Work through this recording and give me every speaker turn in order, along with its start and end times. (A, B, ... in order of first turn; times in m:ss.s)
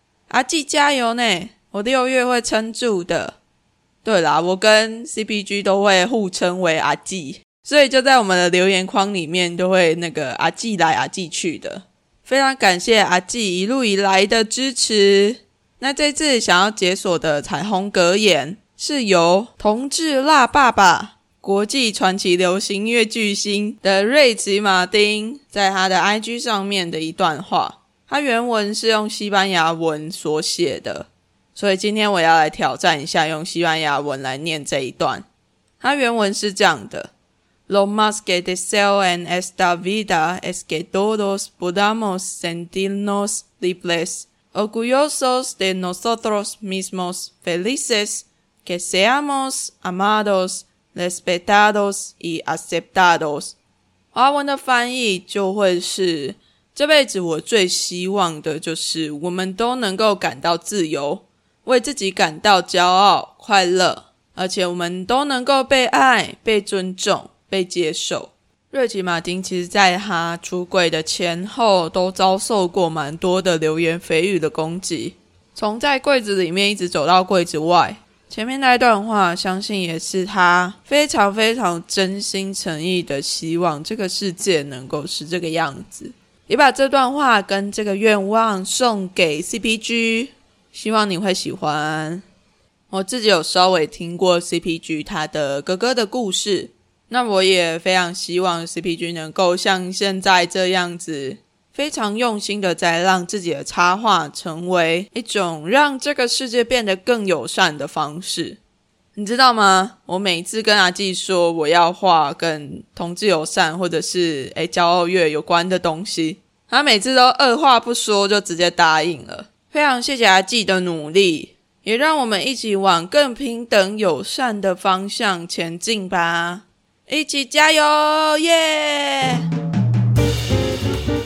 0:00.3-0:03.4 A
0:04.0-0:35.2 A
0:35.8-0:37.1 A
0:37.7-0:53.5 A
0:54.1-1:32.2 A
1:32.9-1:48.6 A
1:49.1-2:09.4 A